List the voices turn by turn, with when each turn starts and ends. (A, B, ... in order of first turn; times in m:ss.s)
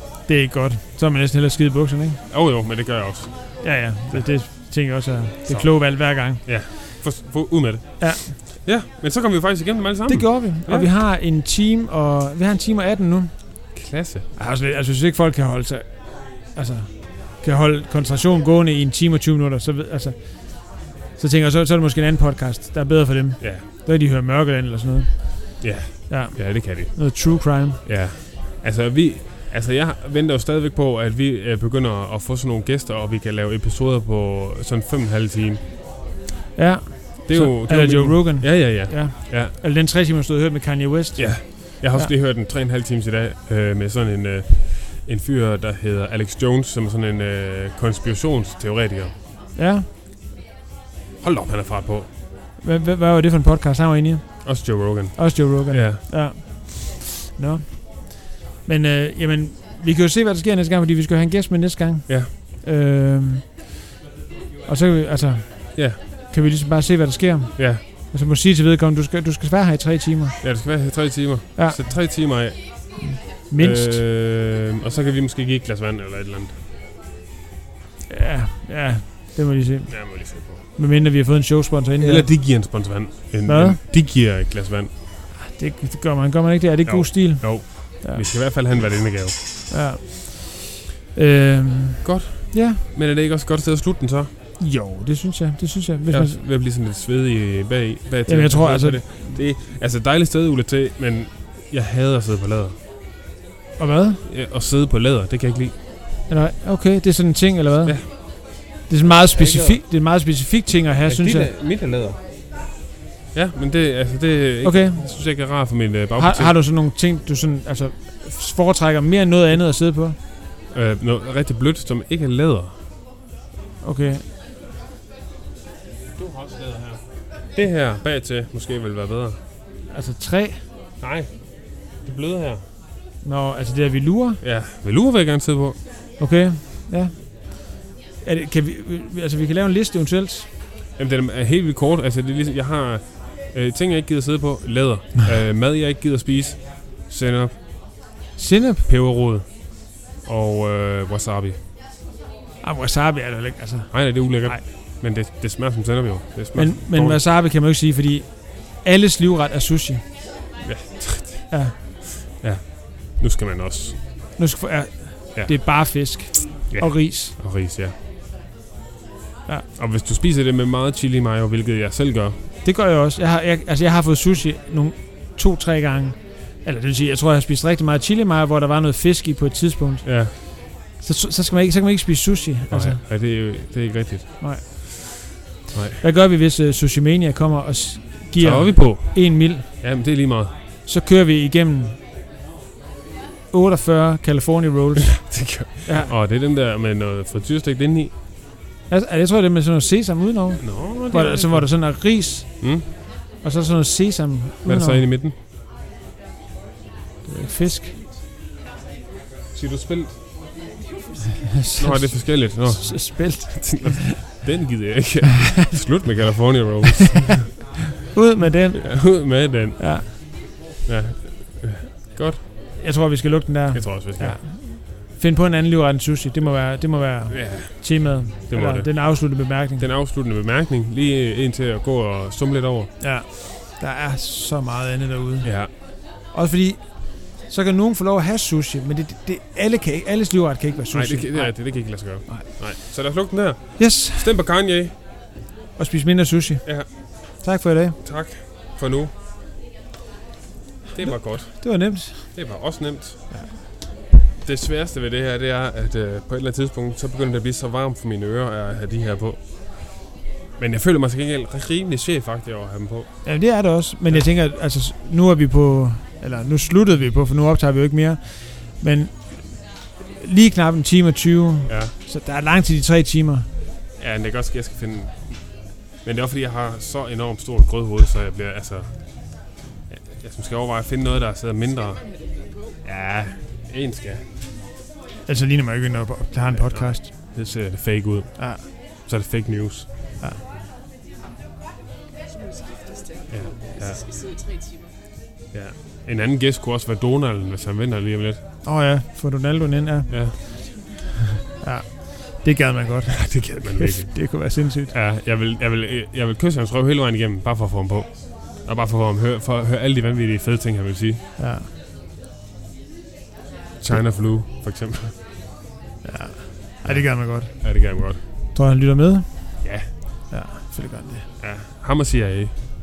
0:00.3-0:02.2 A
0:02.3-0:04.4 B
0:03.6-0:06.9 A
0:05.5-0:10.9 B
0:08.0-0:08.3 A
0:10.1-0:13.8 A
0:13.7-0:14.3 B
0:14.3-0:27.8 A
0:23.4-0:23.6 B
0:25.6-0:35.6 B
0:36.6-0:42.1 A
0:37.3-0:39.5 B
0:41.2-0:49.1 B
0:49.6-0:49.9 A
0:51.2-0:52.1 B
0:52.6-1:03.6 A
0:54.4-0:56.0 B
1:04.6-1:10.9 A
1:07.6-1:07.8 B
1:10.4-1:16.6 B
1:11.6-1:14.0 A
1:18.1-1:22.8 A
1:19.9-1:20.6 B
1:22.0-1:24.9 B
1:23.4-1:23.8 A
1:25.4-1:28.3 A
1:26.8-1:29.4 B
1:29.7-1:32.8 A
1:32.0-1:34.3 B
1:34.6-1:36.4 A
1:36.1-1:42.8 B
1:38.3-1:39.4 A
1:43.8-1:44.2 A
1:44.3-1:45.8 B
1:46.3-1:51.5 A
1:47.8-1:48.1 B
1:48.8-1:49.8 B
1:51.1-1:52.2 B
1:53.3-1:56.6 B
1:54.6-1:55.5 A
1:56.2-2:00.2 A
2:00.7-2:02.7 B
2:03.8-2:04.2 A
2:06.2-2:09.4 B
2:09.9-2:10.6 A
2:11.0-2:12.6 B
2:13.2-2:14.4 A
2:14.4-2:15.8 B
2:16.2-2:20.5 A
2:21.0-2:27.6 B
2:28.4-2:28.9 A
2:28.9-2:31.6 B
2:32.6-2:34.6 A
2:33.9-2:37.2 B
2:36.6-2:40.0 A
2:40.6-2:44.0 B
2:41.5-2:41.7 A
2:44.4-2:47.3 A
2:45.4-2:46.2 B
2:46.7-2:47.9 B
2:49.8-2:52.4 B
2:52.6-3:03.0 A
3:00.0-3:00.3 B
3:02.7-3:04.7 B
3:04.4-3:05.4 A
3:05.7-3:06.0 B
3:06.0-3:09.8 A
3:08.4-3:10.5 B
3:10.8-3:12.0 A
3:13.5-3:16.1 A
3:15.1-3:18.1 B
3:18.9-3:25.0 A
3:20.6-3:22.9 B
3:24.6-3:25.4 B
3:27.2-3:27.9 A
3:29.5-3:30.2 B
3:30.9-3:31.5 C
3:31.5-3:34.2 A
3:31.8-3:37.8 B
3:38.1-3:40.1 A
3:38.8-3:42.4 B
3:42.8-3:49.9 A
3:43.7-3:44.4 B
3:47.3-3:52.9 B
3:53.0-4:02.6 A
3:55.4-3:55.7 B
4:00.9-4:04.9 B
4:03.8-4:04.3 A
4:05.8-4:08.0 A
4:06.6-4:06.9 B
4:08.0-4:09.1 B
4:10.9-4:13.2 B
4:11.0-4:12.4 A
4:14.4-4:23.4 B
4:23.2-4:33.5 A
4:31.6-4:31.9 B
4:34.0-4:42.1 B
4:42.8-4:44.2 B
4:45.3-4:47.4 A
4:46.5-4:49.9 B
4:48.4-4:48.6 A
4:52.4-4:54.8 C
4:53.3-4:54.0 B
4:55.5-4:58.4 B
4:58.6-5:00.6 A
5:00.1-5:00.4 B
5:01.6-5:04.9 A
5:03.2-5:11.2 B
5:11.4-5:11.7 A
5:13.8-5:15.2 B
5:16.0-5:21.3 A
5:16.8-5:18.2 B
5:19.6-5:19.9 B
5:21.4-5:22.5 B